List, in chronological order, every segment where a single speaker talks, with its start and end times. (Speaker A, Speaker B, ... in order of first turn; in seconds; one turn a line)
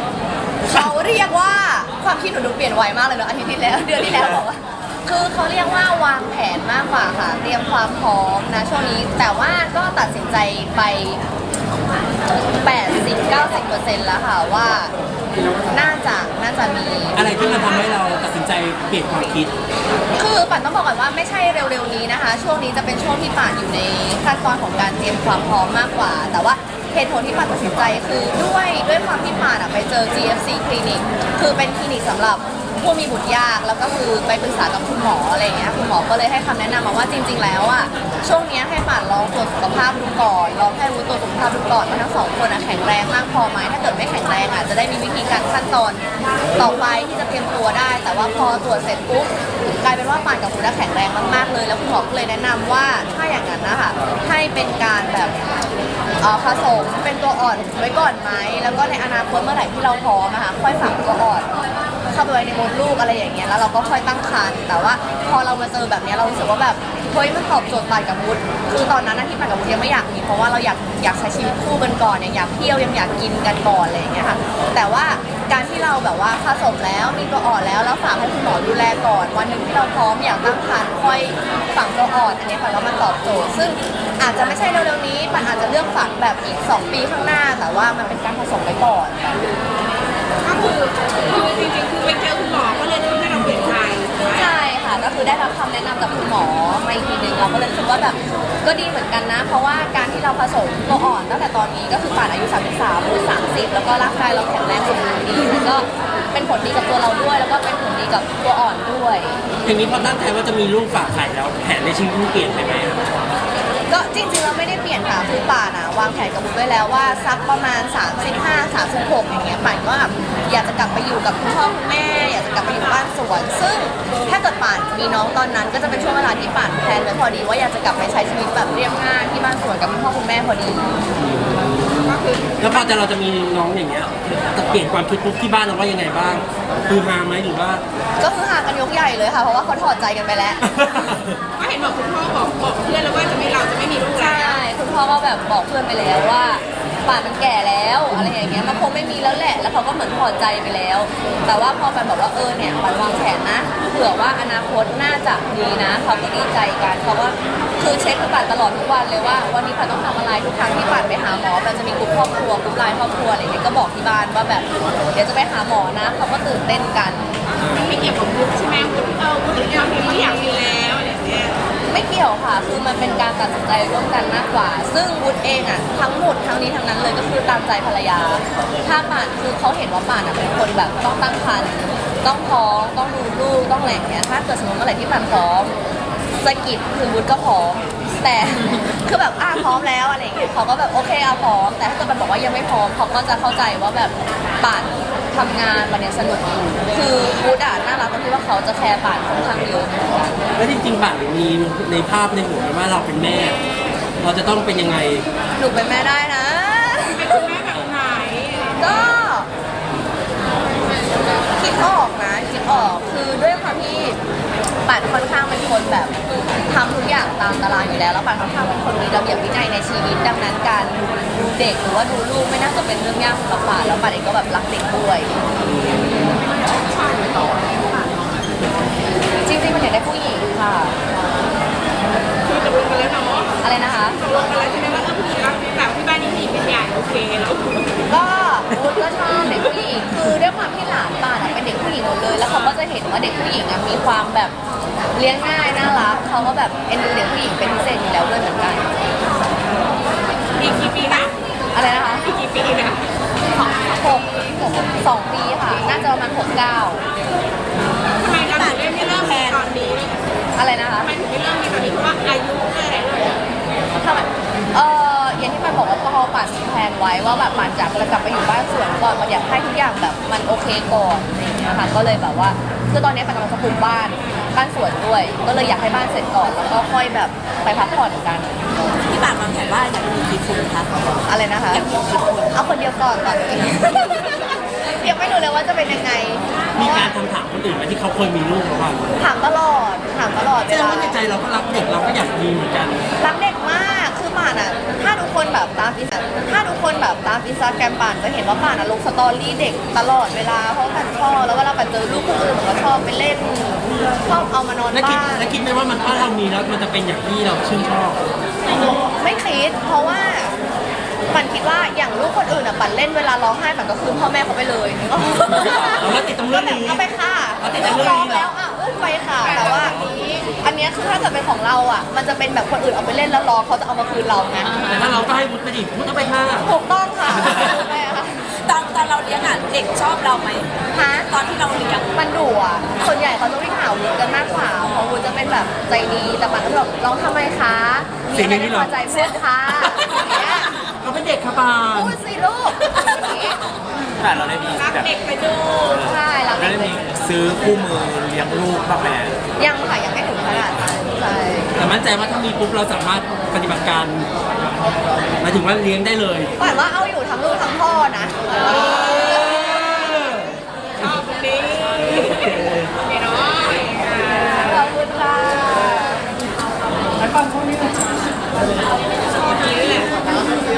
Speaker A: 0.7-11.2
Speaker A: 12.6-14.9
Speaker A: 15.7-17.3
Speaker B: 17.1-19.5
Speaker A: 20.1-46.0
Speaker A: 46.6-55.5
Speaker A: 56.2-61.5
Speaker A: 62.1-89.5
Speaker C: 90.4-94.5
Speaker A: 94.3-109.4
Speaker B: 109.7-113.1
Speaker A: 113.9-130.9
Speaker B: 131.2-137.8
Speaker C: 132.1-133.0
Speaker A: 138.2-140.7
Speaker B: 140.7-141.4
Speaker C: 141.6-144.6
Speaker A: 144.2-167.3
Speaker B: 167.6-167.9
Speaker C: 167.7-171.7
Speaker A: 171.9-185.8
Speaker A: 186.4-200.4
Speaker B: 200.6-203.6
Speaker B: 204.2-205.3
Speaker A: 205.6-207.5
Speaker C: 207.0-209.2
Speaker A: 208.8-209.5
Speaker A: 211.6-214.2
Speaker A: 214.9-216.2
Speaker A: 216.7-225.4
Speaker B: 225.7-226.4
Speaker C: 226.2-228.1
Speaker A: 229.4-231.0
Speaker C: 232.4-238.0
Speaker A: 233.6-234.2
Speaker A: 238.1-244.6
Speaker A: 245.1-248.9
Speaker C: 250.6-251.3
Speaker A: 251.7-252.3
Speaker C: 252.2-253.1
Speaker A: 253.6-257.0
Speaker C: 258.2-260.3
Speaker D: 258.5-259.6
Speaker A: 260.6-261.1
Speaker C: 261.0-263.4
Speaker A: 264.0-278.6
Speaker D: 279.0-280.9
Speaker A: 281.3-281.9
Speaker D: 281.7-282.6
Speaker A: 282.5-287.2
Speaker B: 286.8-289.1
Speaker A: 289.2-291.2
Speaker B: 290.7-293.1
Speaker A: 293.2-305.5
Speaker B: 304.9-308.2
Speaker A: 309.1-310.6
Speaker A: 311.3-324.7
Speaker B: 315.5-317.1
Speaker B: 317.6-318.5
Speaker C: 319.4-320.4
Speaker B: 319.7-320.1
Speaker D: 324.7-325.2
Speaker B: 324.9-326.7
Speaker A: 326.6-328.4
Speaker B: 327.4-327.8
Speaker D: 328.5-330.7
Speaker A: 330.9-331.3
Speaker D: 331.2-332.1
Speaker A: 332.1-340.8
Speaker B: 338.3-339.0
Speaker D: 339.1-340.4
Speaker B: 341.0-342.2
Speaker A: 341.9-343.6
Speaker D: 342.9-343.4
Speaker E: 344.2-345.1
Speaker C: 344.7-346.1
Speaker A: 346.0-347.1
Speaker E: 346.6-349.4
Speaker A: 349.6-351.8
Speaker B: 351.8-354.3
Speaker B: 355.4-356.5
Speaker A: 356.6-359.7
Speaker C: 358.7-359.9
Speaker C: 361.0-364.7
Speaker A: 364.4-366.3
Speaker C: 369.3-370.2